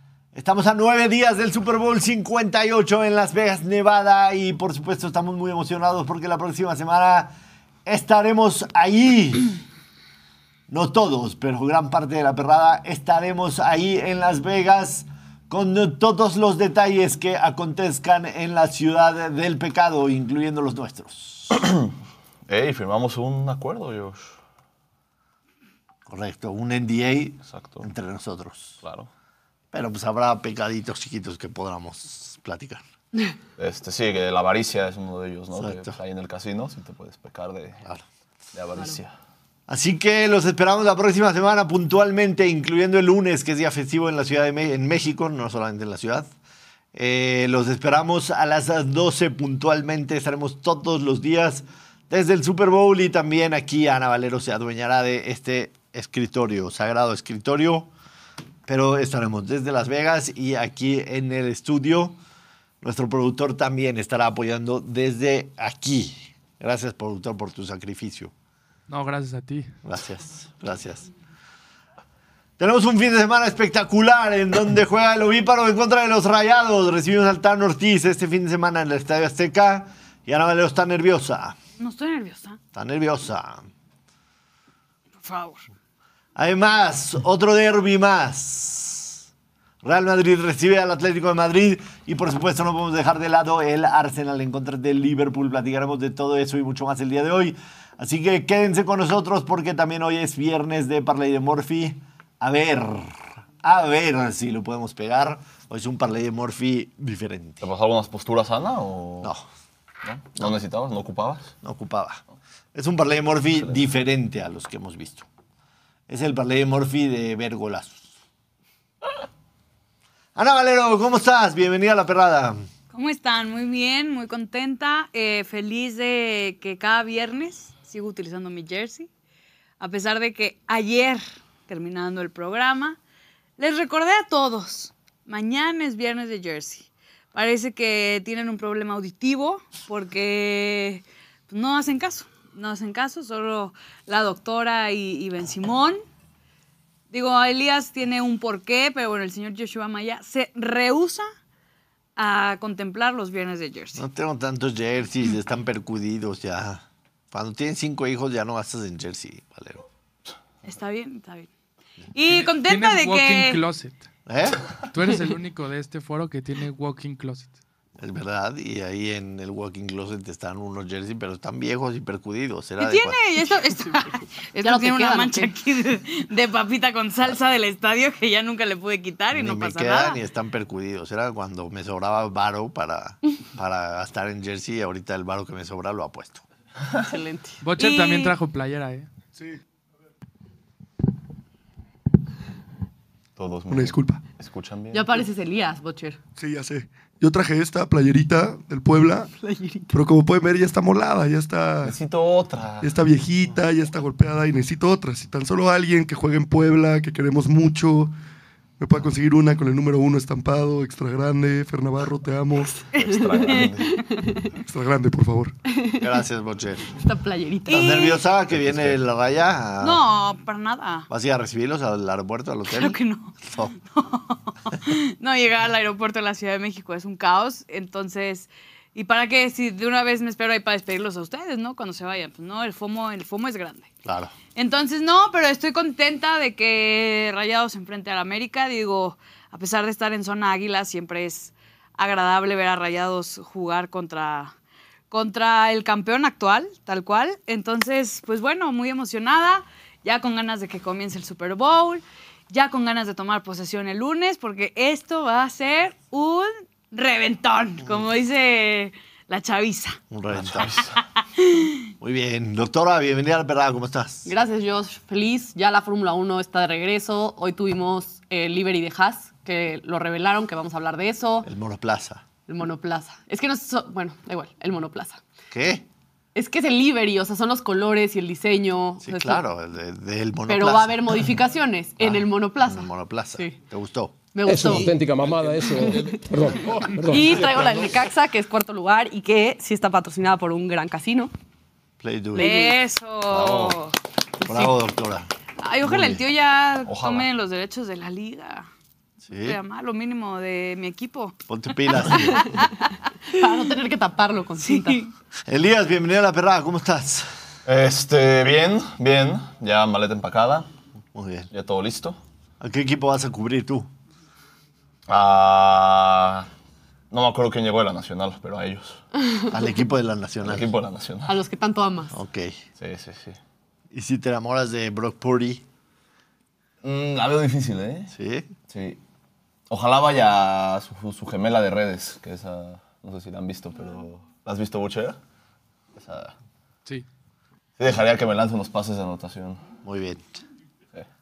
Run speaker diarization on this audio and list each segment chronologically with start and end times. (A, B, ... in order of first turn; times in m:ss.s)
0:00.3-0:07.3 A
0:07.8-0:09.6 A
0:10.7-0:21.6 A
0:21.6-0:21.8 B
0:22.5-0:24.4 B
0:26.1-0:28.8 A
0:27.5-0:27.9 B
0:28.8-0:29.1 B
0:29.7-0:32.8 A
0:33.6-0:37.8 B
0:35.5-0:36.0 A
0:38.5-0:39.1 B
0:39.7-0:46.3 A
0:46.9-0:57.9 A
0:58.6-1:02.2 A
1:02.8-1:08.3 A
1:08.9-1:09.7 C
1:09.8-1:11.1 A
1:12.6-1:21.6 A
1:21.8-1:22.6 D
1:22.7-1:23.7 A
1:25.2-1:25.6 D
1:26.4-1:29.2 A
1:29.8-1:47.7 A
1:47.6-1:49.3 B
1:50.0-1:51.5 B
1:51.6-1:52.2 A
1:52.7-1:55.2 A
1:56.1-1:58.1 A
2:00.4-2:02.6 A
2:02.9-2:09.1 D
2:09.8-2:13.0 D
2:13.6-2:26.0 D
2:27.1-2:31.2 D
2:32.2-2:34.0 D
2:33.9-2:39.9 A
2:40.6-2:41.5 D
2:42.1-2:43.6 D
2:42.2-2:44.0 C
2:44.2-2:44.6 A
2:44.9-2:47.5 C
2:48.0-2:53.2 A
2:52.8-3:00.2 D
2:54.6-2:55.5 E
2:59.3-3:06.4 A
3:07.0-3:07.6 E
3:07.6-3:09.1 C
3:07.8-3:08.3 D
3:13.4-3:15.2 B
3:13.7-3:14.2 F
3:14.9-3:16.2 E
3:16.4-3:19.3 F
3:19.4-3:20.0 E
3:19.9-3:22.0 F
3:21.8-3:23.0 B
3:22.8-3:28.1 F
3:28.8-3:32.8 F
3:32.9-3:34.0 D
3:32.9-3:34.0 B
3:34.5-3:35.5 F
3:35.7-3:36.2 E
3:36.0-3:37.0 A
3:37.0-3:38.0 E
3:37.7-3:38.2 D
3:37.7-3:40.0 A
3:38.5-3:39.0 B
3:39.8-3:41.1 D
3:41.1-3:43.7 A
3:42.7-3:53.9 D
3:54.0-3:54.3 A
3:54.5-4:04.5 D
4:05.1-4:20.0 D
4:20.1-4:20.8 A
4:20.3-4:21.0 B
4:20.8-4:21.9 D
4:22.0-4:24.3 A
4:24.2-4:31.5 E
4:31.4-4:32.2 A
4:32.4-4:35.2 E
4:35.5-4:35.8 A
4:36.3-4:39.4 E
4:39.0-4:41.4 A
4:40.5-4:43.6 E
4:42.0-4:44.9 A
4:44.3-4:45.0 E
4:44.4-4:47.8 G
4:45.6-4:51.3 E
4:52.0-4:52.6 A
4:52.4-4:52.8 E
4:52.4-4:53.9 D
4:53.3-4:53.7 A
4:53.4-4:53.7 B
4:54.4-4:55.3 A
4:55.6-4:58.7 D
4:55.8-4:56.2 A
4:56.9-4:57.3 B
4:59.2-4:59.6 A
4:59.4-5:01.3 D
5:01.5-5:02.6 A
5:03.3-5:05.0 E
5:04.6-5:05.1 D
5:05.5-5:07.3 A
5:07.6-5:10.7 B
5:11.1-5:11.5 A
5:11.5-5:12.2 B
5:12.6-5:13.9 A
5:15.1-5:16.5 B
5:17.1-5:19.0 B
5:19.5-5:20.7 A
5:20.4-5:21.4 B
5:21.3-5:22.2 E
5:22.1-5:22.6 A
5:22.8-5:23.4 B
5:23.9-5:25.6 A
5:26.8-5:28.1 B
5:28.1-5:28.5 A
5:28.7-5:29.0 B
5:29.7-5:35.2 B
5:36.0-5:36.3 B
5:37.8-5:39.6 B
5:39.8-5:40.4 A